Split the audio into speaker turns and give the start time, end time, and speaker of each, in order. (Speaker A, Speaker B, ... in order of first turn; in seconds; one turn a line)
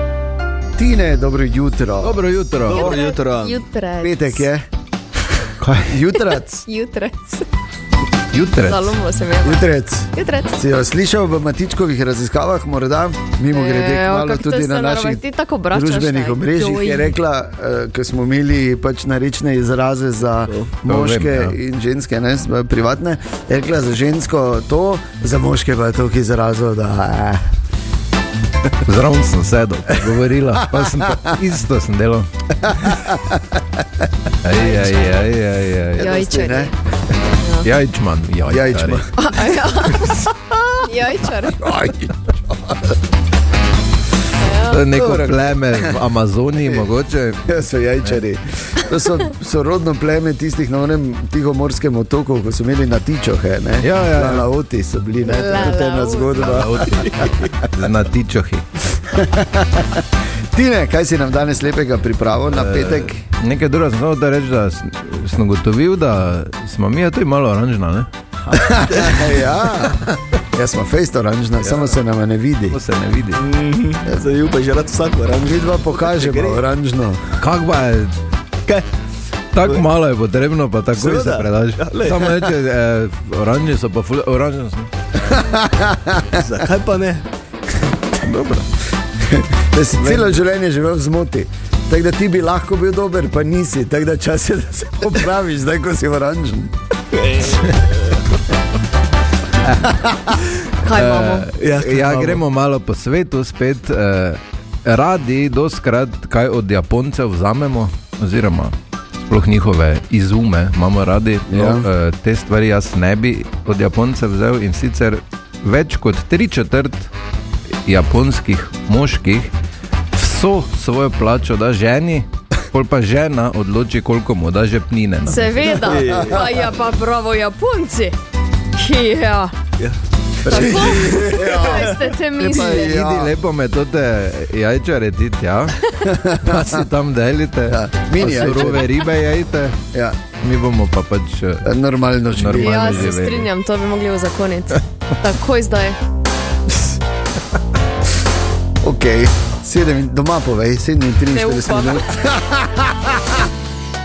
Speaker A: 0.8-2.9
Speaker B: 2.0-2.9
Speaker C: 2.7-3.6
Speaker D: 2.7-4.5
Speaker A: 4.0-4.7
Speaker B: 5.6-5.9
Speaker A: 5.8-6.7
Speaker D: 6.2-7.5
Speaker B: 8.3-9.0
Speaker D: 8.6-10.6
Speaker A: 9.4-27.5
Speaker D: 13.5-17.1
Speaker C: 20.5-20.7
Speaker B: 20.8-21.5
Speaker B: 28.8-32.3
Speaker A: 30.6-31.3
Speaker A: 32.6-33.6
Speaker B: 34.4-36.1
Speaker D: 34.6-35.1
Speaker A: 36.0-36.7
Speaker D: 36.0-36.7
Speaker B: 37.6-39.1
Speaker A: 38.5-39.1
Speaker D: 39.1-40.3
Speaker D: 40.8-41.7
Speaker A: 41.4-43.0
Speaker D: 44.4-44.9
Speaker B: 44.7-47.5
Speaker A: 44.9-46.0
Speaker A: 47.5-57.4
Speaker B: 53.8-54.5
Speaker D: 55.2-56.4
Speaker B: 56.3-58.7
Speaker A: 59.1-63.2
Speaker B: 62.5-69.2
Speaker A: 68.5-72.8
Speaker B: 71.6-72.0
Speaker B: 72.7-73.4
Speaker C: 73.3-76.6
Speaker A: 75.4-77.4
Speaker B: 77.4-78.2
Speaker B: 79.5-84.9
Speaker C: 80.9-82.5
Speaker A: 85.2-86.4
Speaker C: 86.3-87.2
Speaker B: 88.2-88.6
Speaker A: 89.2-96.8
Speaker C: 97.1-98.2
Speaker A: 99.9-100.3
Speaker D: 100.8-101.5
Speaker B: 100.8-117.1
Speaker C: 101.6-102.4
Speaker A: 111.5-111.9
Speaker B: 117.8-119.5
Speaker B: 120.1-125.9
Speaker D: 125.3-128.2
Speaker C: 125.8-126.6
Speaker D: 128.8-129.5
Speaker C: 129.8-131.7
Speaker A: 130.4-133.3
Speaker D: 130.5-133.0
Speaker B: 132.5-139.8
Speaker A: 136.0-136.9
Speaker A: 137.7-138.9
Speaker A: 139.9-140.2
Speaker B: 140.3-141.7
Speaker A: 141.6-143.1
Speaker B: 142.3-143.5
Speaker D: 142.5-146.0
Speaker A: 148.8-153.5
Speaker D: 151.3-152.1